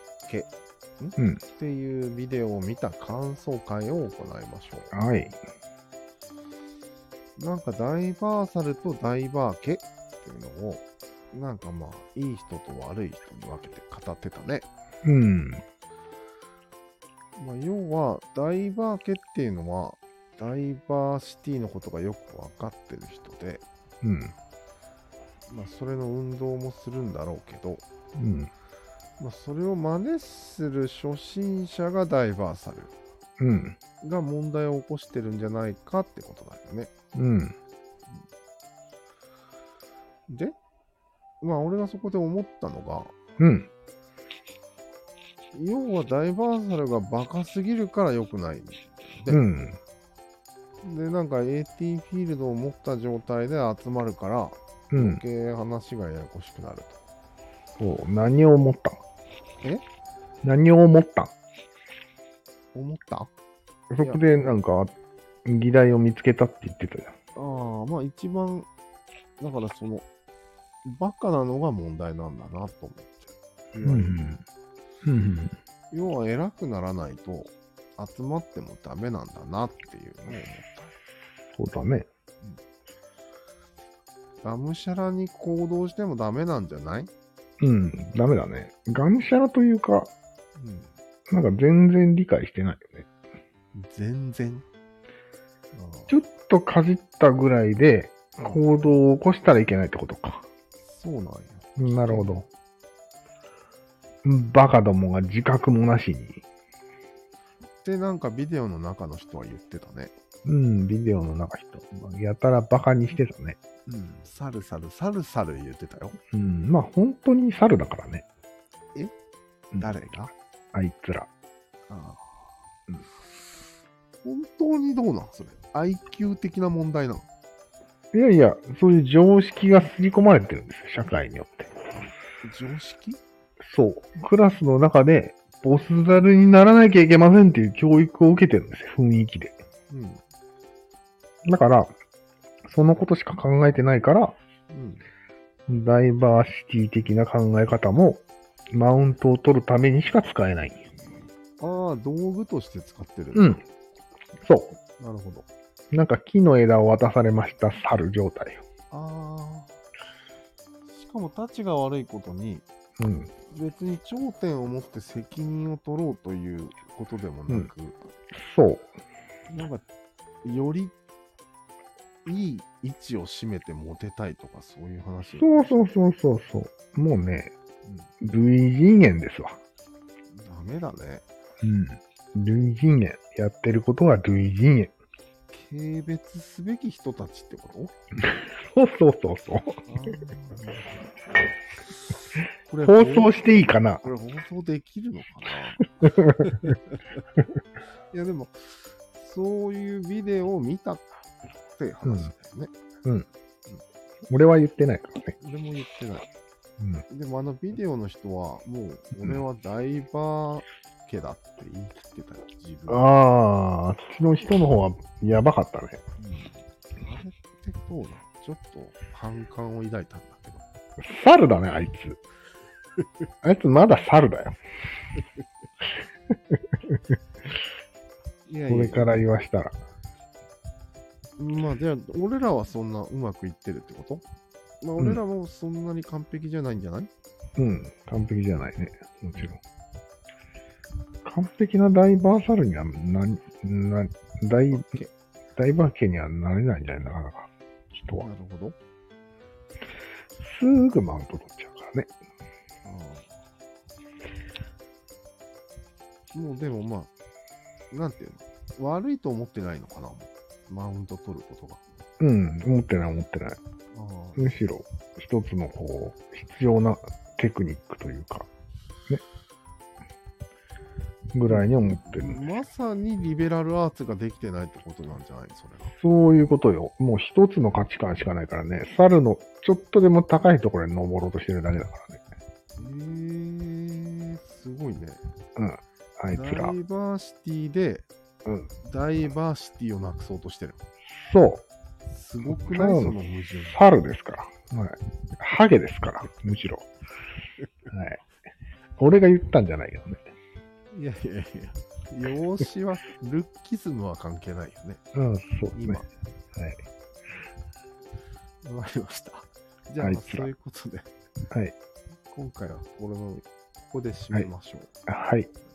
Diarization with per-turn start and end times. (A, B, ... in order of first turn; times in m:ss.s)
0:00.2-0:04.9 A
0:04.9-0:05.4 B
0:07.4-0:14.6 A
0:15.0-0:15.6 B
0:17.4-0:23.6 A
0:24.0-0:24.3 B
0:25.5-0:27.8 A
0:28.2-0:28.5 B
0:29.2-0:32.9 A
0:33.4-0:33.8 B
0:34.0-0:36.9 A
0:37.1-0:37.5 B
0:40.3-0:40.5 A
0:41.4-0:43.1 A
0:43.4-0:43.7 B
0:45.5-0:49.4 A
0:49.3-0:49.8 B
0:50.8-0:57.0 A
0:54.9-0:55.2 B
0:57.8-0:59.0 B
1:00.4-1:01.3 B
1:02.7-1:03.3 A
1:03.9-1:04.9 B
1:05.4-1:07.1 B
1:07.4-1:08.7 A
1:09.4-1:10.0 A
1:10.8-1:14.2 A
1:13.8-1:14.4 B
1:15.0-1:15.6 B
1:15.9-1:20.9 A
1:21.6-1:22.1 B
1:24.4-1:27.1 A
1:27.6-1:30.1 B
1:30.6-1:30.9 A
1:31.3-1:33.1 B
1:33.7-1:34.6 A
1:35.7-1:36.1 A
1:36.1-1:40.4 B
1:40.8-1:42.3 A
1:41.8-1:42.5 B
1:44.2-1:46.4 B
1:47.8-1:50.1 A
1:50.4-1:53.6 B
1:53.9-1:56.2 A
1:56.3-1:58.2 B
1:59.8-2:00.3 A
2:00.7-2:01.3 B
2:01.9-2:02.2 A
2:04.2-2:07.3 A
2:08.1-2:11.7 B
2:12.4-2:13.2 A
2:13.6-2:19.6 B
2:19.9-2:20.2 A
2:21.4-2:21.9 B
2:22.6-2:24.4 B
2:24.7-2:25.0 A
2:25.7-2:30.9 B
2:31.6-2:33.6 A
2:33.3-2:33.6 B
2:34.4-2:34.8 B
2:35.0-2:35.4 A
2:35.9-2:38.6 B
2:38.9-2:39.7 A
2:40.9-2:42.6 A
2:43.0-2:43.3 B
2:43.5-2:48.0 A
2:48.3-2:48.9 B
2:49.5-2:49.8 A
2:50.4-2:50.9 A
2:52.2-2:55.8 A
2:55.4-2:57.5 B
2:57.8-2:58.1 A
2:58.2-2:59.6 B
3:00.3-3:01.2 A
3:01.6-3:04.9 B
3:05.5-3:07.9 A
3:08.2-3:09.8 B
3:09.8-3:11.1 A
3:11.9-3:13.4 A
3:12.8-3:14.0 B
3:14.0-3:17.0 A
3:16.0-3:16.5 B
3:18.1-3:21.0 A
3:21.8-3:22.7 A
3:22.0-3:22.3 B
3:24.3-3:25.4 B
3:25.4-3:26.3 A
3:27.1-3:33.1 A
3:32.9-3:36.0 B
3:36.2-3:40.6 A
3:41.0-3:42.2 B
3:43.4-3:44.6 B
3:48.5-3:49.1 A
3:48.7-3:49.8 B
3:51.4-3:54.2 A
3:54.8-3:57.1 A
3:57.6-3:59.6 B
4:01.2-4:04.9 B
4:04.7-4:05.1 A
4:05.6-4:08.3 B
4:08.2-4:08.8 A
4:10.4-4:12.1 B
4:12.8-4:13.3 A
4:16.3-4:17.1 A
4:17.9-4:21.8 A
4:22.2-4:23.6 B
4:23.9-4:24.6 A
4:24.4-4:28.5 B
4:31.3-4:32.4 B
4:31.5-4:35.9 A
4:35.9-4:42.2 B
4:42.8-4:45.2 A
4:45.6-4:46.7 B
4:46.3-4:48.1 A
4:48.4-4:48.7 B
4:48.8-4:50.8 A
4:51.2-4:51.6 B
4:52.1-4:53.8 A
4:52.5-4:56.9 B
4:57.9-4:58.2 B
4:59.0-5:00.3 B
5:00.9-5:05.0 A
5:05.1-5:06.0 B
5:05.7-5:06.1 A
5:08.6-5:11.1 A
5:10.0-5:10.5 B
5:12.3-5:14.9 A
5:15.1-5:15.5 B